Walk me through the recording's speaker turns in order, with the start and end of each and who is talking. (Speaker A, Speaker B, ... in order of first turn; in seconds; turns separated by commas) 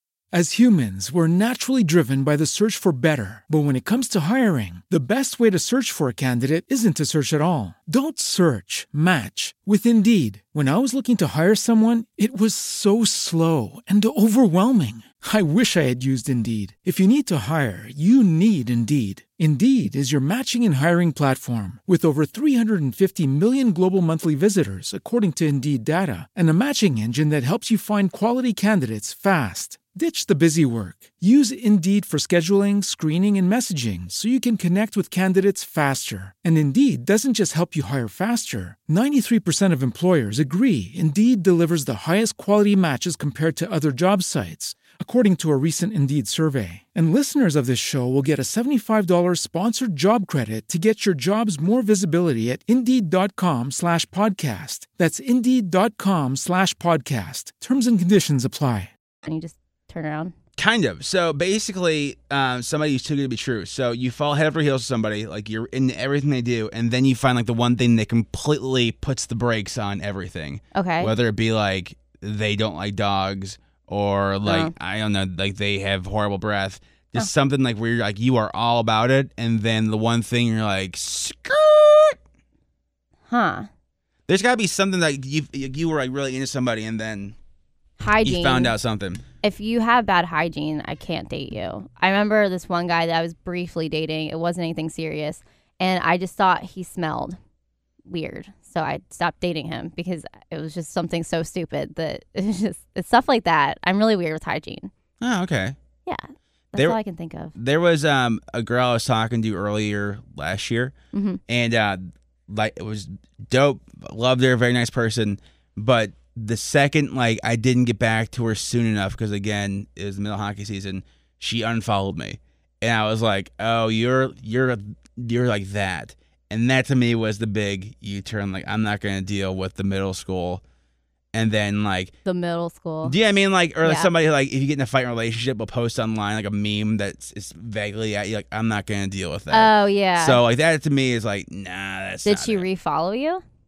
Speaker A: 0.3-58.9, Speaker B: 59.2-60.3, Speaker C: 60.6-82.2, Speaker B: 70.8-71.1, Speaker B: 74.5-74.7, Speaker B: 83.3-83.7, Speaker C: 84.3-87.4, Speaker B: 88.0-88.7, Speaker C: 88.2-89.2, Speaker B: 89.4-97.4, Speaker B: 98.1-104.9, Speaker C: 105.2-105.8, Speaker B: 106.1-107.5, Speaker C: 107.6-110.9, Speaker B: 111.1-111.4, Speaker C: 111.5-130.6, Speaker C: 131.3-132.1, Speaker B: 132.2-133.2, Speaker C: 133.0-142.7, Speaker B: 133.8-134.1, Speaker B: 139.5-140.4, Speaker B: 142.2-143.4